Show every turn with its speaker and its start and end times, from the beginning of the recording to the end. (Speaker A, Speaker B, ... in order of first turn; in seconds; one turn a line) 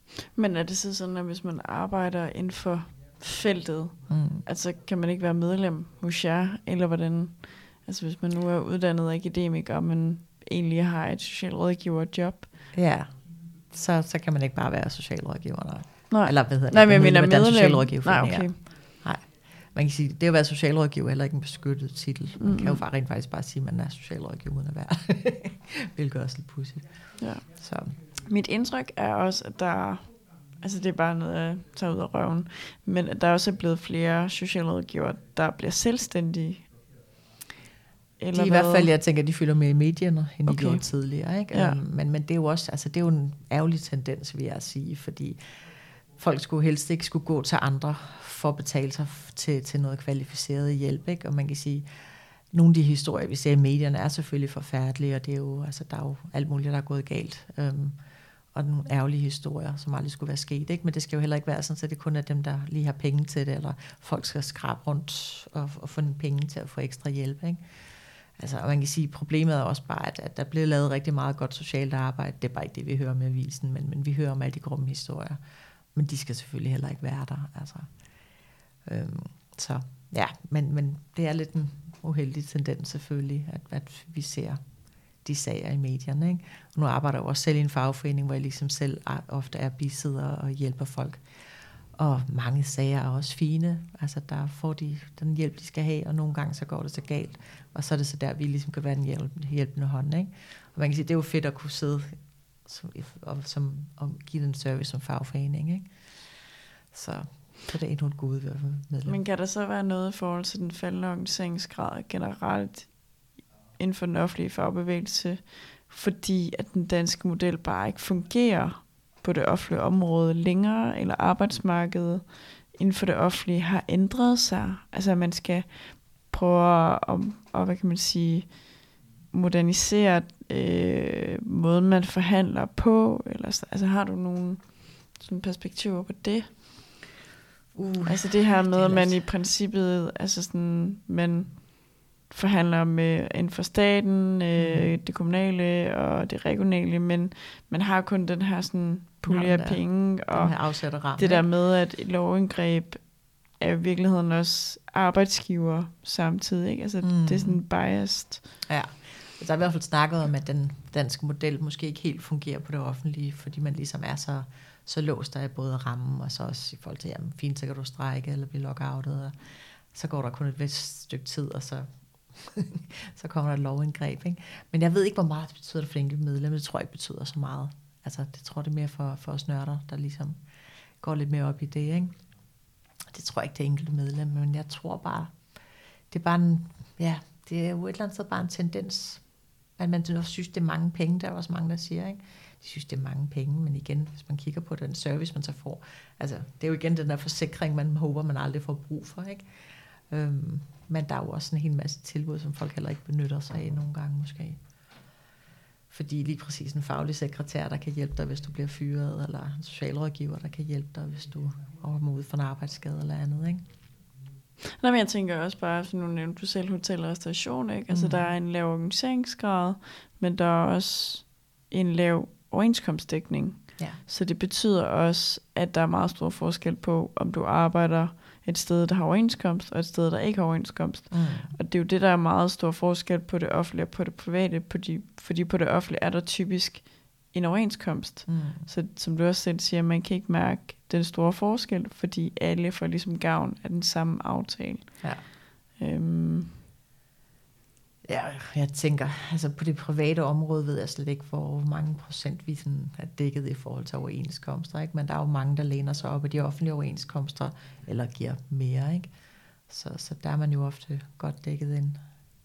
Speaker A: 0.3-12.5
Speaker B: 4.1-4.4
Speaker B: 12.7-28.0
Speaker A: 16.1-18.6
Speaker A: 22.4-22.8
Speaker A: 27.2-27.4
Speaker A: 28.2-36.7
Speaker A: 38.2-38.9
Speaker B: 38.3-45.4
Speaker A: 40.5-40.9
Speaker A: 41.5-41.8
Speaker B: 46.1-58.0
Speaker B: 58.5-67.8
Speaker B: 68.3-75.4
Speaker B: 75.9-106.1
Speaker B: 106.9-109.2
Speaker A: 109.0-136.6
Speaker B: 137.7-139.2
Speaker A: 138.0-158.4
Speaker B: 144.6-144.9
Speaker B: 149.3-151.5
Speaker B: 157.0-157.6
Speaker B: 158.6-180.4
Speaker B: 181.0-182.2
Speaker B: 183.0-185.3
Speaker B: 186.1-199.5
Speaker B: 200.1-204.6
Speaker B: 205.9-213.6
Speaker A: 214.8-246.6
Speaker B: 217.9-218.3
Speaker B: 231.1-231.5
Speaker B: 238.3-238.7
Speaker B: 248.0-259.1
Speaker B: 259.7-262.0